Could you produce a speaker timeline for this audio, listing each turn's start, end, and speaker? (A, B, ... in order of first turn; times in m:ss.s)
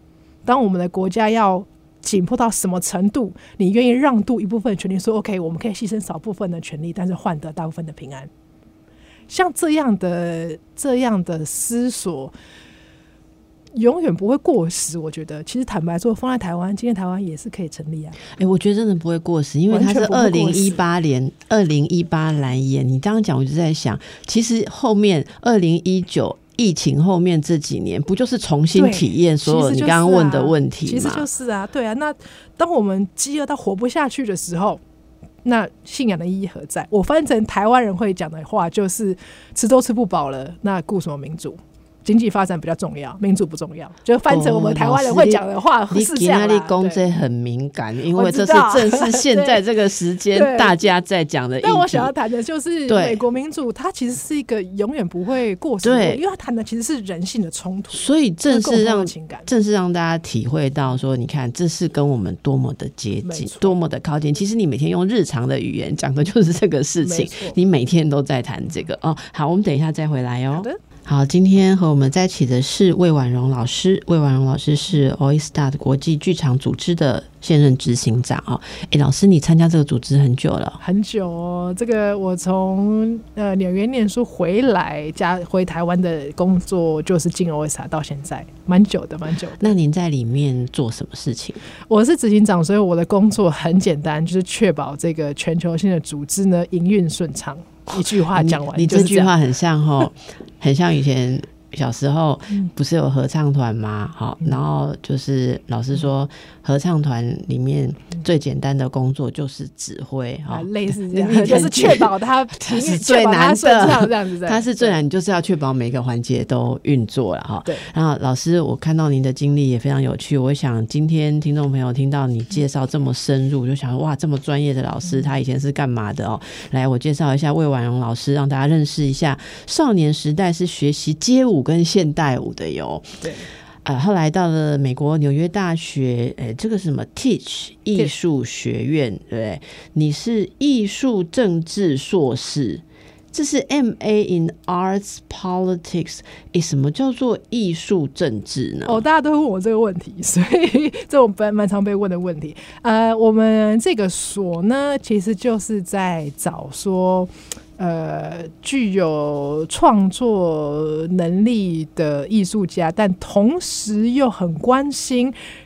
0:00.4-0:08.3 A
0:09.3-0:12.3 A
0:13.8-0:18.2 A
0:18.4-0:31.3 B
0:19.7-0:20.8 A
0:28.8-0:34.8 A
0:35.4-0:47.0 A
0:44.3-0:52.1 B
0:48.2-0:49.6 A
0:50.3-0:50.8 A
0:51.6-0:59.5 A
0:52.9-0:53.2 B
0:55.8-0:56.2 B
0:57.9-1:20.8 B
1:03.2-1:03.8 A
1:07.0-1:07.6 A
1:20.8-1:29.8 A
1:29.6-1:31.6 B
1:31.9-1:39.4 A
1:38.4-2:13.2 B
1:50.5-1:55.0 A
2:13.2-2:13.5 A
2:13.8-2:29.0 B
2:28.9-2:45.4 A